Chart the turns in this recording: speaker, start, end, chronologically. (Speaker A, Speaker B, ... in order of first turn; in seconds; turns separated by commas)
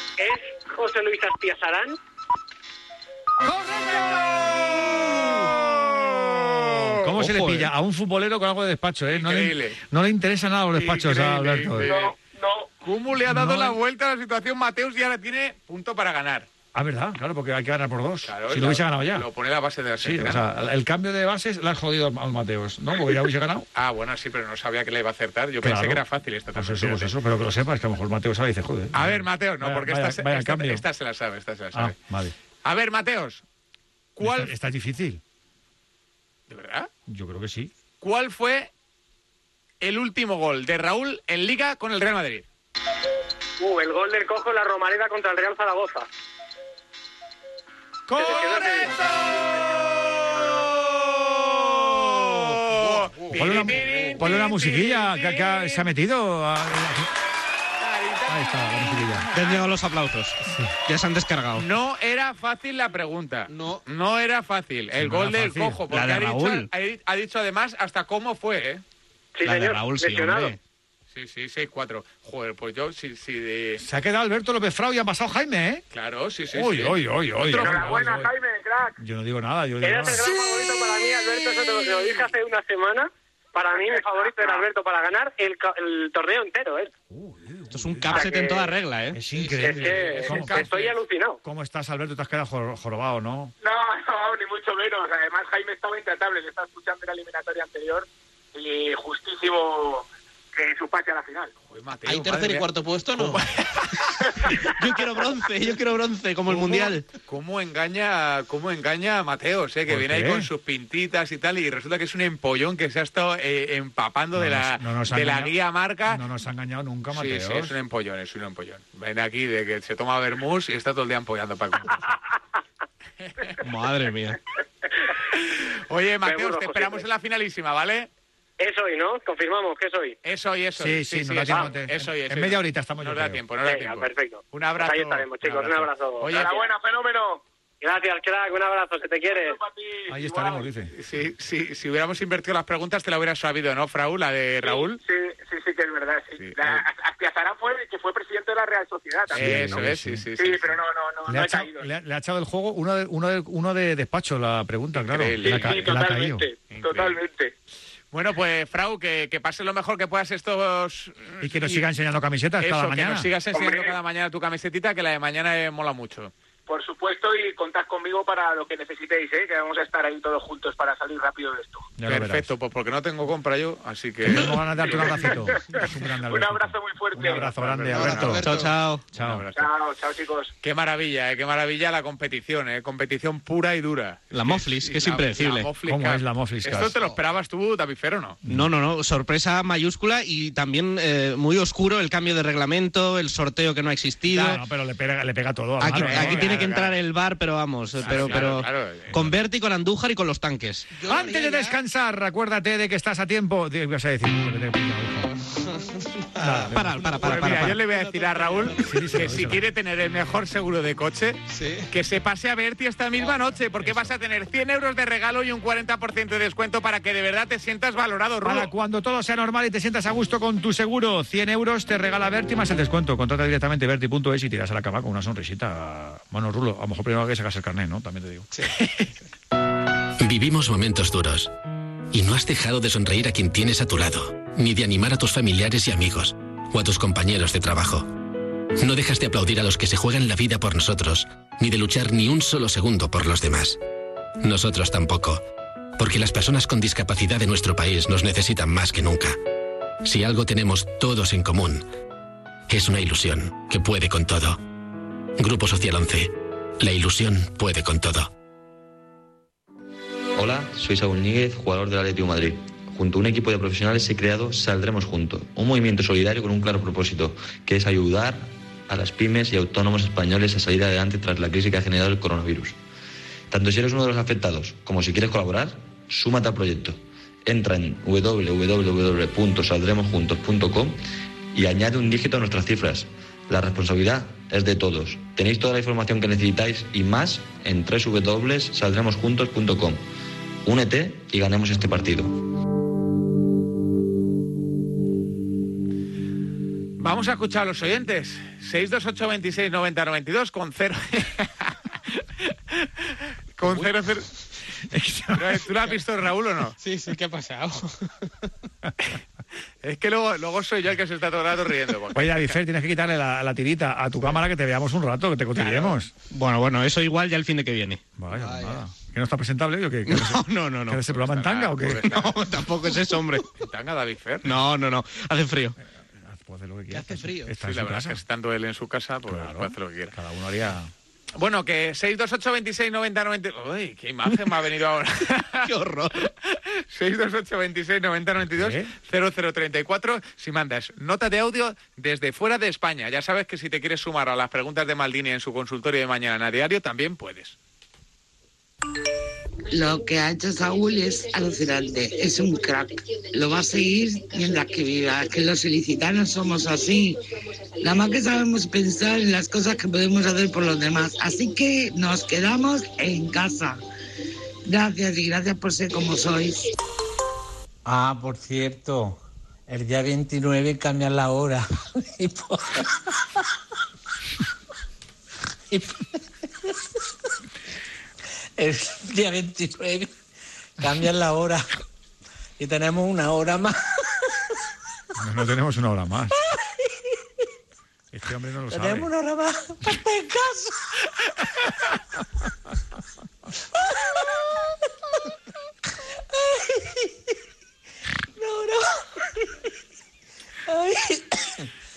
Speaker A: 0.2-2.0, Speaker B: 3.5-4.4, Speaker C: 4.4-7.1, Speaker B: 6.7-11.9, Speaker D: 7.2-7.7, Speaker C: 9.1-9.8, Speaker C: 10.7-12.1, Speaker E: 11.8-12.7, Speaker C: 12.8-16.5, Speaker B: 13.2-13.8, Speaker B: 16.7-19.2, Speaker C: 18.2-20.4, Speaker B: 20.0-23.7, Speaker C: 23.7-27.1, Speaker B: 25.6-26.0, Speaker B: 26.5-30.8, Speaker C: 28.9-32.0, Speaker B: 31.7-32.3, Speaker C: 32.6-33.4, Speaker C: 34.1-34.5, Speaker B: 34.2-35.2, Speaker C: 36.5-36.9, Speaker B: 37.1-37.7, Speaker C: 38.0-38.7, Speaker C: 39.8-42.5, Speaker A: 43.6-46.1, Speaker A: 48.1-48.9, Speaker C: 48.1-49.5, Speaker C: 51.4-55.9, Speaker B: 53.3-57.1, Speaker C: 57.8-59.6, Speaker B: 58.3-59.2, Speaker D: 59.3-61.7, Speaker C: 61.5-68.8, Speaker F: 63.5-63.8, Speaker B: 65.0-65.8, Speaker D: 65.9-66.7, Speaker A: 69.3-70.5, Speaker D: 69.4-70.6, Speaker C: 71.1-73.8, Speaker B: 73.8-75.8, Speaker C: 75.9-78.3, Speaker B: 76.5-78.3, Speaker E: 77.6-78.9, Speaker B: 79.0-80.3, Speaker A: 79.8-86.9, Speaker E: 83.7-84.7, Speaker B: 87.1-88.3, Speaker D: 87.7-89.2, Speaker A: 88.1-88.8, Speaker B: 89.1-90.7, Speaker C: 89.3-91.0, Speaker A: 89.6-91.4, Speaker B: 91.4-93.5, Speaker E: 93.6-101.5, Speaker C: 101.7-104.3, Speaker F: 102.0-103.4, Speaker D: 104.7-107.0, Speaker C: 106.5-116.2, Speaker B: 109.9-110.5, Speaker B: 114.3-117.7, Speaker C: 117.1-122.2, Speaker C: 123.2-123.6, Speaker D: 123.6-124.4, Speaker C: 125.3-128.1, Speaker A: 126.2-127.0, Speaker A: 128.6-130.2, Speaker C: 130.2-136.5, Speaker B: 130.8-133.4, Speaker A: 133.6-136.7, Speaker E: 136.3-137.4, Speaker A: 137.8-139.6, Speaker E: 139.2-140.7, Speaker B: 140.1-140.9, Speaker C: 140.9-145.0, Speaker E: 144.6-149.8, Speaker C: 146.3-146.8, Speaker B: 149.3-150.3, Speaker C: 149.3-150.7, Speaker E: 150.4-151.9, Speaker B: 151.3-156.4, Speaker C: 154.9-155.9, Speaker E: 155.4-157.5, Speaker C: 156.7-157.2, Speaker C: 158.1-161.8, Speaker B: 161.4-163.3, Speaker C: 162.6-166.3, Speaker E: 163.5-164.0, Speaker E: 166.7-171.9, Speaker B: 172.0-172.5, Speaker C: 172.1-175.3, Speaker B: 174.2-178.5, Speaker E: 174.9-177.5, Speaker C: 177.3-179.7, Speaker F: 177.9-178.8, Speaker D: 178.4-179.0, Speaker B: 179.1-179.4, Speaker E: 179.6-180.5, Speaker C: 180.6-188.4, Speaker D: 184.3-185.7, Speaker B: 185.8-186.9, Speaker D: 188.4-194.6, Speaker B: 194.3-196.9, Speaker D: 195.8-200.9, Speaker C: 195.8-196.9, Speaker C: 198.0-199.3, Speaker B: 198.1-198.4, Speaker F: 200.9-201.8, Speaker B: 201.0-205.3, Speaker F: 206.3-209.2, Speaker B: 206.4-207.8, Speaker D: 206.7-207.8, Speaker C: 207.2-218.7, Speaker B: 208.7-209.7, Speaker F: 211.5-211.9, Speaker B: 213.8-214.1, Speaker B: 218.4-228.6, Speaker G: 230.2-231.5, Speaker G: 232.1-238.1, Speaker G: 238.8-243.8, Speaker G: 244.4-245.4, Speaker G: 246.0-249.4, Speaker G: 250.0-251.8, Speaker G: 252.7-254.6, Speaker G: 255.4-258.3, Speaker H: 260.3-272.8, Speaker H: 273.5-281.0, Speaker H: 281.5-290.0, Speaker H: 290.6-292.3, Speaker C: 297.0-304.3, Speaker B: 304.9-305.6, Speaker C: 305.3-306.8, Speaker F: 306.8-308.3, Speaker C: 309.8-312.6, Speaker B: 312.1-316.1, Speaker D: 315.6-318.1, Speaker B: 318.2-322.3, Speaker F: 318.3-318.8, Speaker D: 320.1-321.0, Speaker C: 321.1-322.4, Speaker D: 322.0-323.4, Speaker C: 323.6-324.5, Speaker D: 324.4-325.8, Speaker B: 325.8-328.2, Speaker F: 326.9-327.5, Speaker C: 327.6-330.1, Speaker B: 329.3-330.9, Speaker C: 331.4-347.6, Speaker D: 335.6-336.2, Speaker B: 338.4-338.9, Speaker I: 349.7-357.2, Speaker I: 357.8-363.8, Speaker I: 364.7-366.7, Speaker J: 367.8-373.3, Speaker J: 375.7-376.1, Speaker J: 378.6-380.1, Speaker J: 380.8-381.7, Speaker J: 382.6-384.5, Speaker B: 385.2-386.4, Speaker J: 386.5-386.8, Speaker B: 388.1-389.1, Speaker J: 388.7-390.9, Speaker J: 393.8-394.5, Speaker J: 396.3-397.1, Speaker J: 398.4-399.4, Speaker J: 400.7-401.6